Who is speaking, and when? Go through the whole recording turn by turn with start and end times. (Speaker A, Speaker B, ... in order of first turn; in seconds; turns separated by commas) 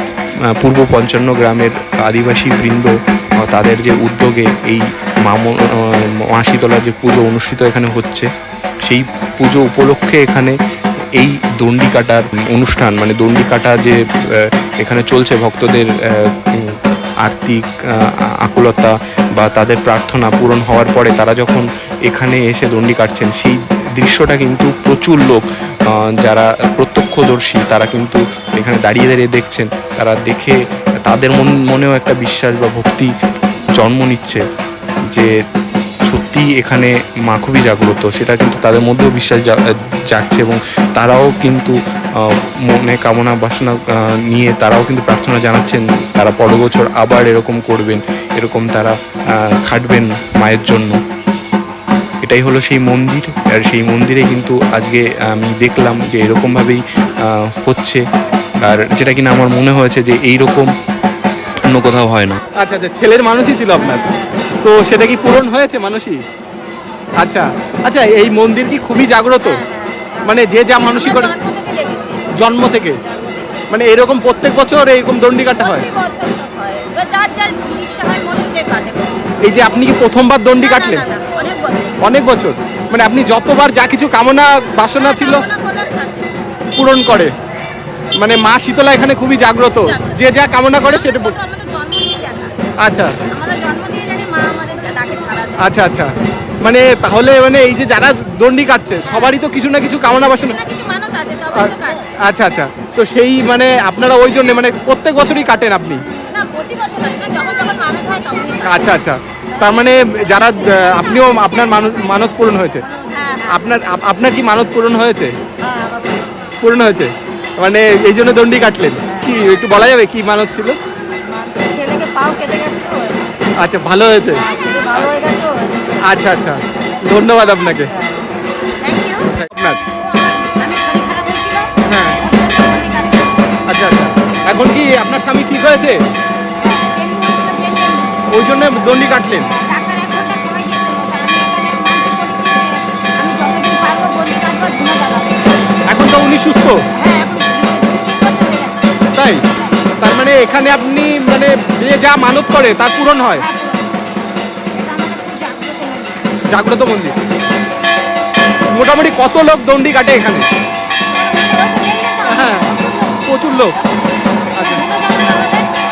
Speaker A: 0.6-8.3, Speaker A: 8.8-10.6, Speaker A: 11.1-33.1, Speaker A: 33.8-34.4, Speaker A: 36.0-51.0, Speaker A: 52.2-58.0, Speaker A: 58.6-60.7, Speaker A: 61.7-62.4, Speaker B: 62.5-64.1, Speaker B: 64.6-66.2, Speaker B: 67.2-69.6, Speaker C: 69.7-70.2, Speaker B: 70.2-71.3, Speaker C: 70.8-72.5, Speaker B: 72.3-73.0, Speaker C: 73.1-73.6, Speaker B: 73.7-75.9, Speaker C: 75.7-79.4, Speaker B: 79.4-81.1, Speaker C: 81.0-82.0, Speaker B: 82.0-85.5, Speaker C: 85.1-86.3, Speaker B: 86.8-87.3, Speaker B: 88.2-91.4, Speaker C: 90.7-95.6, Speaker B: 92.8-93.2, Speaker B: 95.6-100.6, Speaker C: 100.6-102.1, Speaker B: 101.5-106.0, Speaker C: 106.0-108.9, Speaker B: 108.6-112.8, Speaker C: 113.0-113.5, Speaker B: 113.4-115.3, Speaker C: 115.7-116.3, Speaker B: 116.6-120.8, Speaker C: 121.3-123.2, Speaker B: 123.6-124.5, Speaker C: 124.3-126.0, Speaker B: 126.0-127.9, Speaker C: 128.8-129.3, Speaker B: 129.3-129.8, Speaker C: 130.1-133.6, Speaker B: 131.8-132.2, Speaker B: 133.7-136.0, Speaker C: 136.6-138.3, Speaker B: 138.3-139.5, Speaker C: 139.5-145.7, Speaker B: 145.8-146.8, Speaker C: 146.9-148.9, Speaker B: 149.1-149.4, Speaker B: 150.0-153.4, Speaker C: 153.4-154.0, Speaker C: 154.7-156.2, Speaker B: 156.5-157.2, Speaker B: 158.7-160.4, Speaker C: 161.1-163.2, Speaker B: 162.3-162.7, Speaker B: 163.2-163.8, Speaker C: 164.6-165.7, Speaker B: 164.6-164.8